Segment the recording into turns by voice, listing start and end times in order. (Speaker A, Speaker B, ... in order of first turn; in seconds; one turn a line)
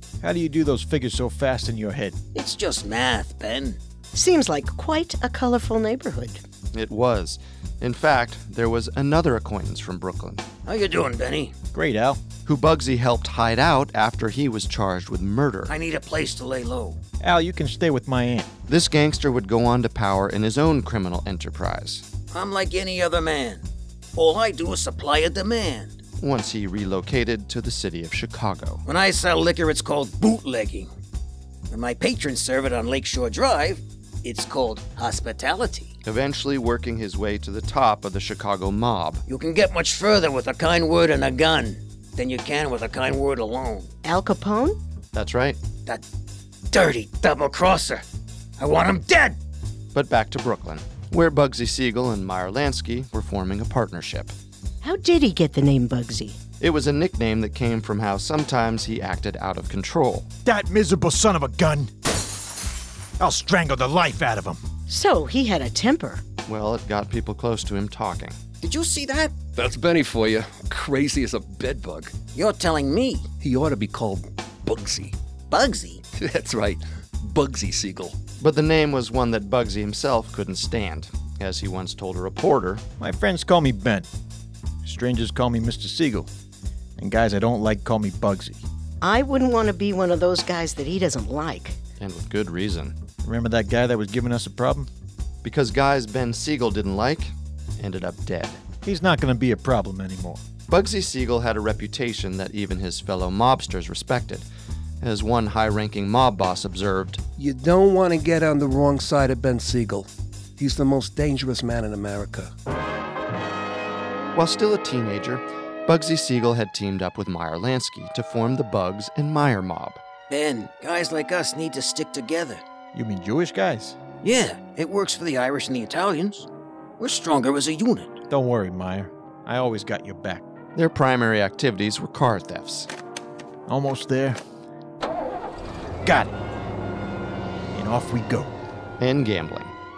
Speaker A: 0.2-2.2
Speaker B: 2.4-3.8
Speaker C: 4.1-6.4
Speaker D: 6.7-10.4
Speaker B: 10.7-11.6
Speaker A: 11.7-12.2
Speaker D: 12.5-15.8
Speaker B: 15.7-17.0
Speaker A: 17.2-18.5
Speaker D: 18.7-22.1
Speaker B: 22.3-26.0
Speaker D: 26.2-28.8
Speaker B: 28.9-30.9
Speaker B: 31.7-35.9
Speaker D: 36.0-39.2
Speaker B: 39.3-43.9
Speaker C: 44.0-44.8
Speaker D: 45.1-45.6
Speaker B: 46.7-48.0
Speaker B: 48.6-49.4
Speaker D: 49.9-54.3
Speaker C: 54.8-56.4
Speaker D: 56.6-60.3
Speaker A: 60.5-61.9
Speaker A: 63.2-64.6
Speaker C: 64.9-66.2
Speaker D: 66.5-68.4
Speaker B: 68.6-69.4
Speaker E: 69.5-72.1
Speaker B: 72.3-73.3
Speaker E: 73.4-75.2
Speaker B: 75.5-76.0
Speaker E: 76.2-78.2
Speaker D: 78.4-82.8
Speaker A: 83.0-84.1
Speaker A: 84.8-86.3
Speaker A: 87.0-88.7
Speaker C: 89.0-91.8
Speaker D: 92.0-93.0
Speaker A: 93.2-94.9
Speaker D: 95.4-98.6
Speaker A: 98.8-100.4
Speaker D: 100.7-104.5
Speaker D: 105.0-107.2
Speaker E: 107.4-112.5
Speaker D: 114.3-120.0
Speaker B: 120.3-122.7
Speaker A: 122.9-124.0
Speaker B: 124.2-126.5
Speaker B: 127.0-128.2
Speaker A: 128.3-130.4
Speaker D: 130.8-132.9
Speaker A: 133.7-134.4
Speaker A: 136.0-136.3
Speaker A: 137.7-138.5
Speaker D: 139.0-139.8